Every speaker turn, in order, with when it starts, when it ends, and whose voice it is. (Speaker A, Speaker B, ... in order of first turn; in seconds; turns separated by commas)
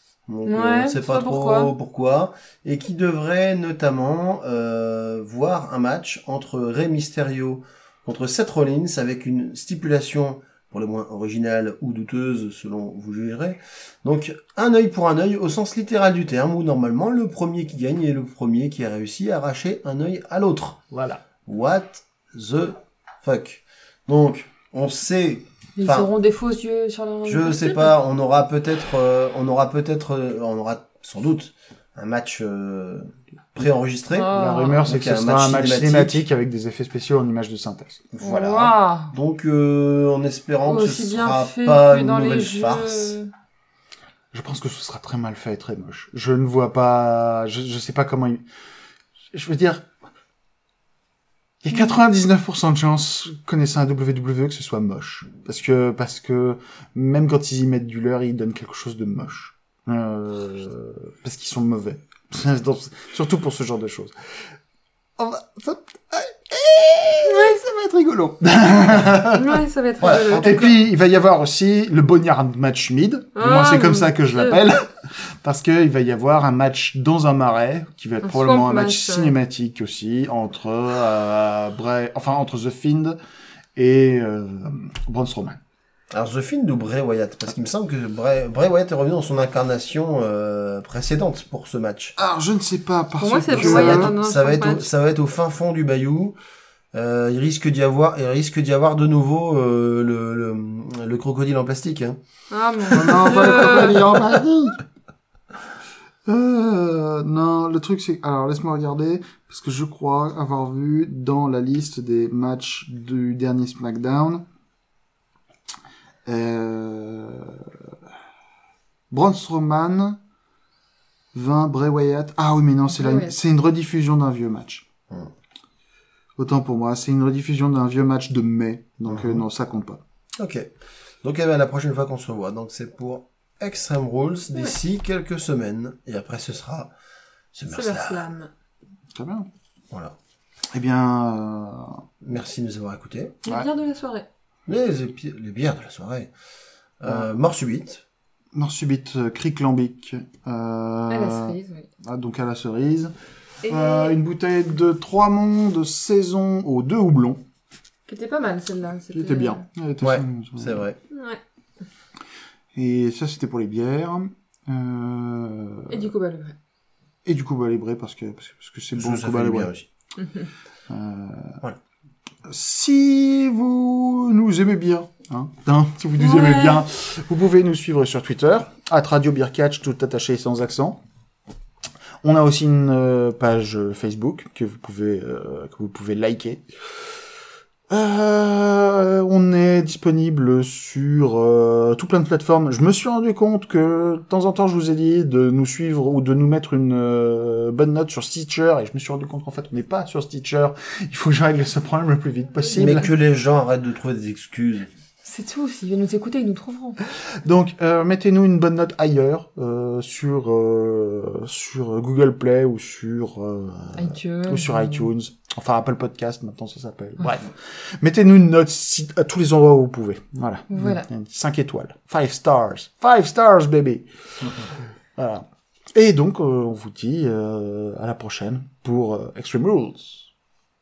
Speaker A: 0.3-20.8, Speaker B: 0.5-1.7, Speaker C: 20.9-21.2, Speaker A: 21.5-26.1, Speaker B: 25.8-27.9, Speaker A: 27.2-36.2, Speaker B: 34.1-34.9, Speaker C: 34.3-38.0, Speaker A: 38.1-43.2, Speaker B: 38.2-39.1, Speaker B: 40.7-43.3, Speaker C: 44.3-48.4, Speaker C: 49.3-49.9, Speaker C: 51.6-64.1, Speaker C: 65.2-69.5, Speaker B: 67.3-67.6, Speaker B: 69.3-70.8, Speaker A: 70.0-70.7, Speaker C: 70.3-83.2, Speaker B: 73.4-74.6, Speaker B: 78.2-79.3, Speaker C: 83.8-85.6, Speaker A: 86.1-92.2, Speaker C: 92.2-94.2, Speaker B: 93.2-94.8, Speaker A: 93.5-96.4, Speaker A: 96.9-102.2, Speaker B: 102.5-104.1, Speaker C: 102.9-104.8, Speaker A: 103.0-103.6, Speaker C: 106.3-114.4, Speaker C: 116.3-117.7, Speaker C: 119.1-120.2, Speaker C: 121.3-124.9, Speaker B: 122.9-123.3, Speaker C: 126.4-130.0, Speaker A: 129.1-129.4, Speaker A: 130.4-130.7, Speaker A: 131.2-136.9, Speaker A: 137.5-138.3, Speaker B: 137.7-138.5, Speaker C: 139.2-139.5, Speaker C: 140.7-142.0, Speaker A: 142.2-143.4, Speaker B: 143.4-144.3, Speaker A: 144.7-146.3, Speaker A: 147.0-148.0, Speaker C: 148.5-153.1, Speaker B: 151.1-151.9, Speaker B: 153.6-154.2, Speaker C: 153.7-157.4, Speaker B: 158.1-159.6, Speaker C: 159.1-160.9, Speaker A: 160.0-161.0, Speaker B: 161.1-161.4, Speaker C: 162.8-166.1, Speaker B: 165.9-166.6, Speaker C: 167.2-169.7, Speaker A: 169.0-169.9, Speaker B: 170.2-170.5, Speaker C: 170.9-171.6, Speaker C: 172.5-181.0, Speaker B: 176.2-176.8, Speaker C: 182.2-187.1, Speaker C: 187.9-203.1, Speaker A: 202.8-204.9, Speaker B: 205.2-207.0, Speaker C: 207.4-224.1, Speaker B: 214.0-215.1, Speaker B: 220.7-221.1, Speaker C: 225.2-230.3